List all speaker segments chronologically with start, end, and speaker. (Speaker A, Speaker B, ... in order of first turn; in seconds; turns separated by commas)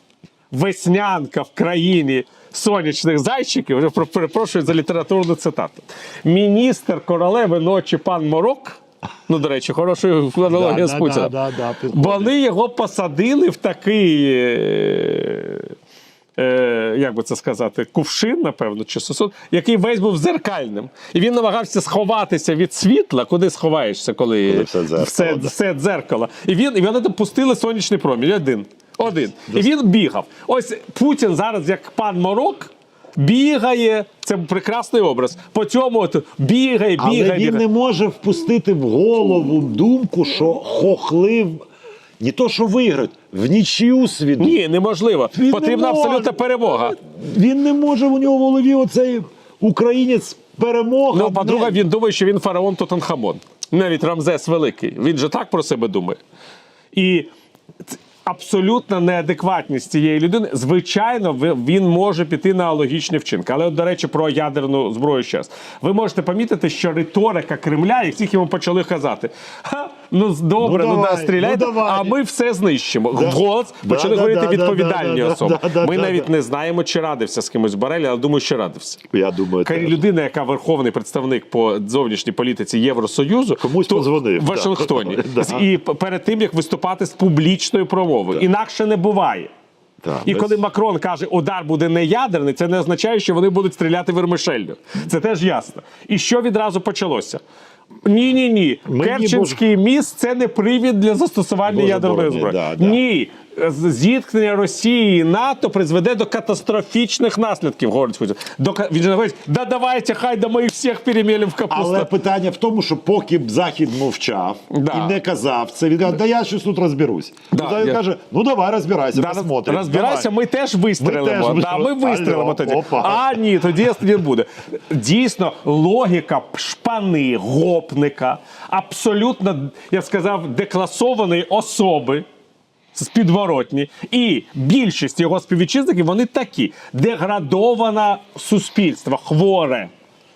Speaker A: 0.5-11.3, Speaker B: 10.4-12.3, Speaker A: 11.9-15.7, Speaker A: 16.4-37.6, Speaker B: 24.5-25.5, Speaker B: 37.0-41.6, Speaker B: 42.2-44.6, Speaker A: 44.4-47.0, Speaker B: 45.3-51.8, Speaker A: 51.1-56.2, Speaker A: 56.9-57.3, Speaker A: 57.9-79.0, Speaker B: 70.6-72.2, Speaker B: 73.1-76.3, Speaker B: 79.1-80.0, Speaker A: 79.6-89.5, Speaker B: 83.6-85.7, Speaker B: 90.0-90.6, Speaker A: 90.2-97.4, Speaker A: 98.0-112.1, Speaker B: 98.8-99.6, Speaker B: 101.6-103.0, Speaker B: 111.7-120.3, Speaker A: 114.7-115.2, Speaker A: 117.5-118.0, Speaker A: 119.1-132.2, Speaker B: 121.0-123.4, Speaker A: 132.9-139.9